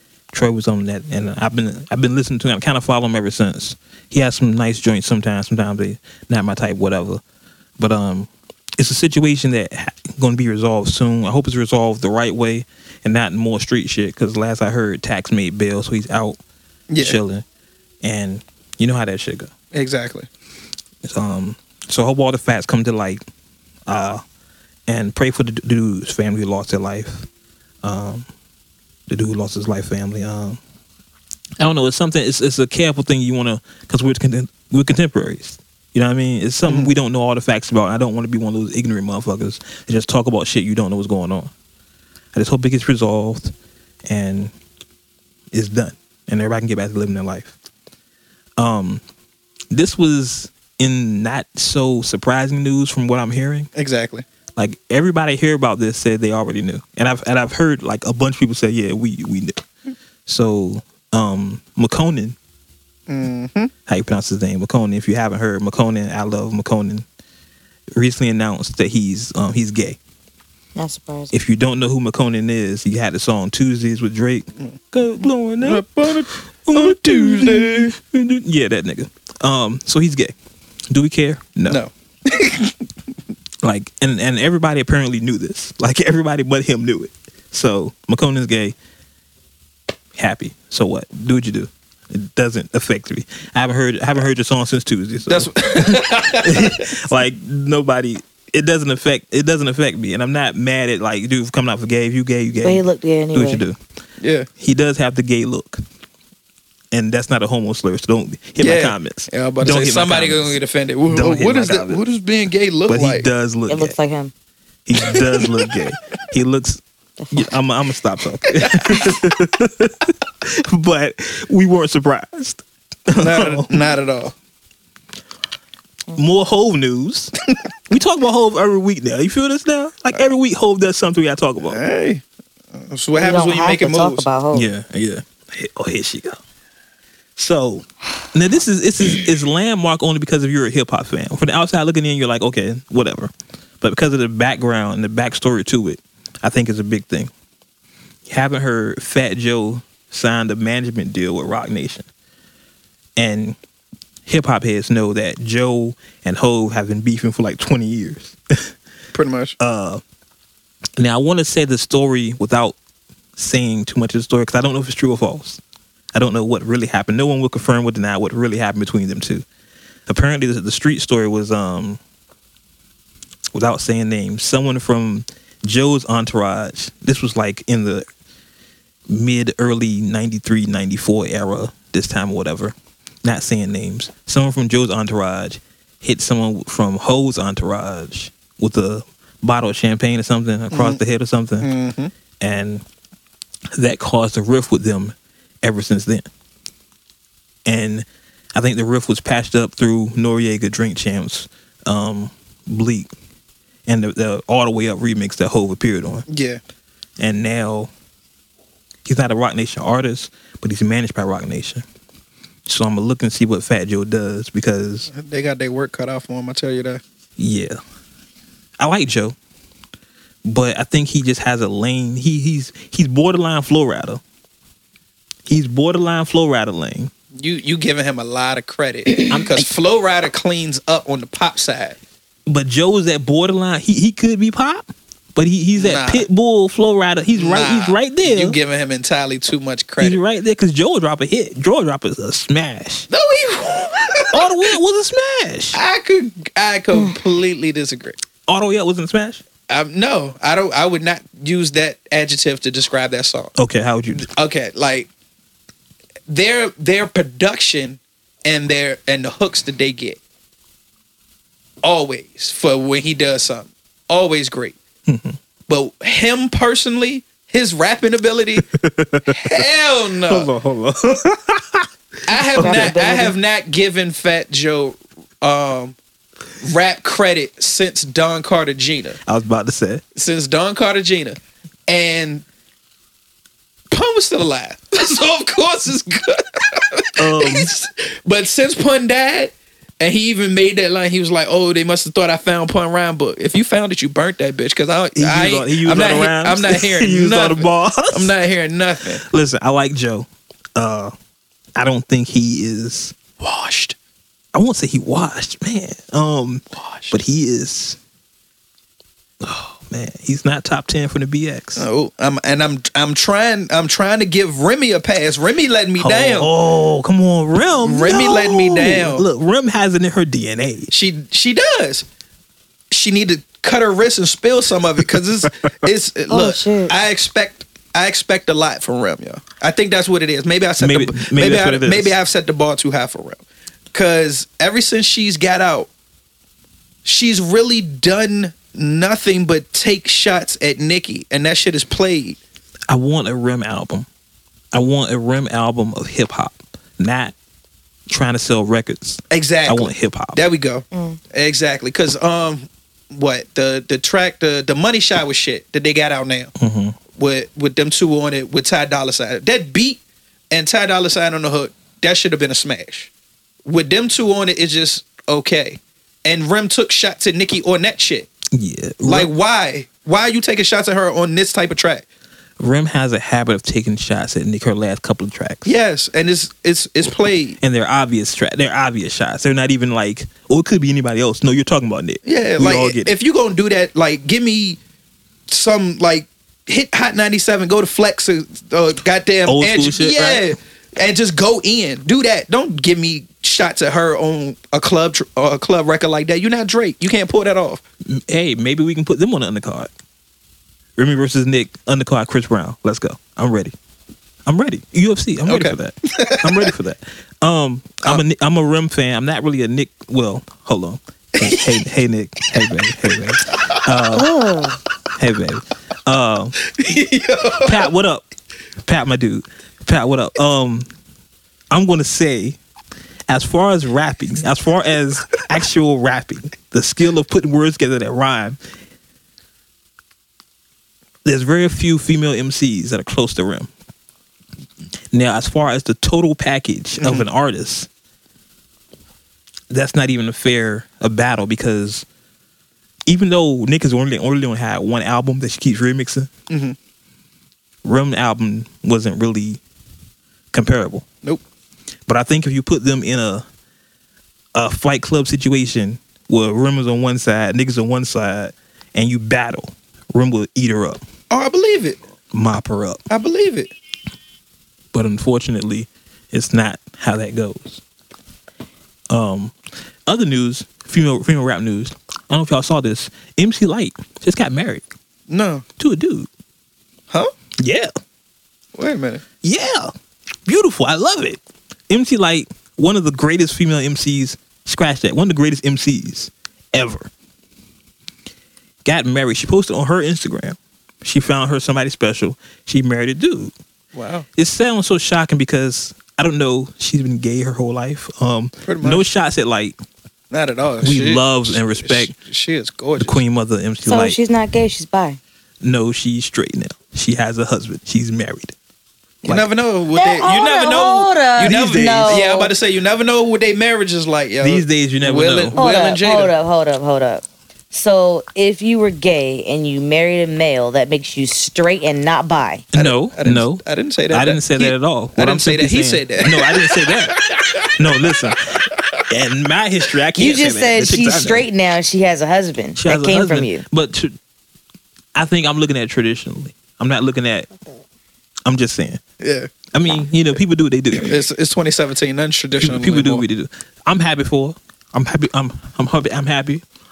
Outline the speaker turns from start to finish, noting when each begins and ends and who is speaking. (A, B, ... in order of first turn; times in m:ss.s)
0:00.3-0:07.2 A
0:07.8-0:16.4 A
0:16.9-0:17.2 B
0:17.0-0:17.4 A
0:18.0-0:19.5 A
0:19.7-0:20.3 B
0:21.0-0:23.2 A
0:23.9-0:24.2 A
0:24.9-0:27.3 A
0:27.8-0:28.3 A
0:29.1-0:30.6 A
0:31.6-0:41.5 A
0:36.6-0:36.9 B
0:42.3-0:43.5 A
0:44.1-0:44.5 A
0:45.5-0:47.5 A
0:48.6-0:49.0 A
0:49.7-0:53.7 A
0:53.8-0:54.2 B
0:54.6-0:59.6 A
1:00.2-1:02.4 A
1:03.1-1:03.7 B
1:03.8-1:07.0 A
1:07.9-1:10.0 A
1:10.8-1:11.3 C
1:11.3-1:15.9 A
1:15.6-1:17.9 B
1:16.6-1:20.3 A
1:20.9-1:21.8 A
1:21.7-1:22.8 B
1:23.6-1:28.7 A
1:30.2-1:43.8 A
1:35.3-1:37.0 B
1:42.6-1:43.6 C
1:44.2-1:44.5 B
1:44.6-1:45.8 A
1:46.9-1:52.0 A
1:48.6-1:53.3 B
1:52.9-1:54.0 A
1:53.7-1:54.3 C
1:54.8-1:56.8 A
1:55.0-1:55.8 B
1:57.2-1:57.5 C
1:57.3-2:03.9 A
1:58.5-1:59.2 B
2:03.2-2:04.3 B
2:06.1-2:07.4 A
2:07.9-2:11.8 A
2:11.7-2:12.2 B
2:12.7-2:14.2 B
2:13.2-2:14.7 C
2:14.5-2:16.4 A
2:17.4-2:27.3 A
2:28.2-2:32.1 A
2:33.2-2:33.6 A
2:34.2-2:38.7 A
2:39.1-2:39.6 B
2:39.6-2:40.0 A
2:41.0-2:42.8 A
2:43.4-2:45.6 A
2:46.1-2:49.4 A
2:50.1-2:52.0 A
2:53.5-2:58.0 A
2:59.1-3:11.7 A
3:10.7-3:11.0 B
3:11.6-3:12.1 B
3:12.4-3:12.8 A
3:13.7-3:16.2 A
3:17.6-3:23.1 A
3:23.8-3:26.2 A
3:26.3-3:26.6 B
3:27.2-3:27.9 A
3:29.0-3:31.8 A
3:32.6-3:35.1 A
3:35.1-3:37.0 B
3:37.4-3:37.8 A
3:38.8-3:39.4 A
3:40.4-3:44.2 A
3:45.4-3:47.1 A
3:47.3-3:52.0 B
3:49.3-3:49.6 A
3:52.5-3:58.6 A
3:55.8-3:56.2 B
3:57.3-4:00.2 B
4:00.0-4:03.1 A
4:03.1-4:04.7 B
4:04.3-4:05.8 A
4:05.7-4:08.2 B
4:08.5-4:09.4 A
4:09.7-4:13.5 B
4:13.6-4:14.3 A
4:14.1-4:15.1 B
4:16.3-4:20.2 B
4:21.8-4:24.8 B
4:25.1-4:25.4 A
4:25.7-4:28.6 B
4:28.7-4:29.6 A
4:29.3-4:30.5 B
4:30.2-4:31.9 A
4:32.3-4:36.0 B
4:32.5-4:33.3 C
4:32.6-4:32.9 A
4:36.6-4:39.2 B
4:39.2-4:40.0 A
4:40.1-4:42.4 B
4:43.9-4:59.2 B
4:47.2-4:47.7 A
4:55.1-4:58.3 A
4:59.2-5:01.1 A
5:01.8-5:03.2 A
5:03.4-5:04.0 B
5:04.5-5:08.0 A
5:06.7-5:07.2 B
5:09.4-5:11.8 A
5:11.8-5:16.5 B
5:16.0-5:20.9 A
5:17.8-5:19.2 B
5:20.9-5:22.0 B
5:22.9-5:33.4 B
5:25.0-5:25.9 A
5:26.3-5:26.9 C
5:30.8-5:32.2 A
5:33.9-5:35.9 B
5:37.0-5:42.4 B
5:42.9-5:44.1 A
5:44.7-5:47.3 A
5:48.1-5:50.4 A
5:49.3-5:56.5 B
5:50.9-5:51.2 C
5:56.6-5:57.0 A
5:57.1-6:03.1 B
6:03.6-6:08.3 B
6:08.5-6:09.3 A
6:09.0-6:12.0 B
6:12.6-6:15.7 A
6:15.6-6:17.6 B
6:17.6-6:23.1 A
6:22.2-6:24.8 B
6:25.5-6:37.8 B
6:29.4-6:30.5 A
6:38.0-6:39.9 A
6:41.0-6:43.7 A
6:44.4-6:54.3 A
6:45.5-6:46.7 B
6:51.4-6:51.8 B
6:53.5-6:53.8 B
6:54.1-6:54.8 C
6:55.1-6:56.6 A
6:56.6-6:57.9 B
6:57.6-6:58.2 A
6:58.8-7:00.9 A
7:01.7-7:02.6 A
7:03.3-7:08.6 A
7:11.2-7:13.7 A
7:15.1-7:17.9 A
7:17.0-7:17.3 B
7:19.7-7:22.0 A
7:23.1-7:26.3 A
7:26.5-7:26.8 B
7:27.8-7:29.6 A
7:30.5-7:31.0 A
7:32.1-7:33.4 A
7:34.5-7:41.0 A
7:41.3-7:42.0 B
7:42.3-7:43.0 A
7:43.1-7:43.7 B
7:44.9-7:47.8 A
7:49.1-7:49.5 A
7:50.1-7:54.8 A
7:55.3-7:55.6 B
7:55.8-7:56.3 A
7:57.6-7:57.9 A
7:58.7-7:59.2 B
7:59.4-7:59.9 A
8:00.4-8:07.1 A
8:08.8-8:13.5 A
8:13.9-8:14.3 B
8:14.4-8:19.8 A
8:18.6-8:19.0 B
8:20.3-8:23.2 B
8:20.8-8:22.1 A
8:23.0-8:24.2 A
8:23.8-8:25.2 C
8:25.6-8:28.5 A
8:29.2-8:36.3 B
8:29.9-8:32.5 C
8:31.4-8:32.2 A
8:34.4-8:35.6 A
8:35.6-8:42.6 C
8:42.7-8:47.2 A
8:42.7-8:49.0 B
8:47.7-8:51.5 A
8:50.2-8:53.6 C
8:52.8-8:54.2 A
8:55.1-8:57.5 A
8:58.4-8:59.0 A
8:59.2-8:59.5 B
8:59.7-9:01.2 A
9:01.0-9:03.2 B
9:02.6-9:06.6 A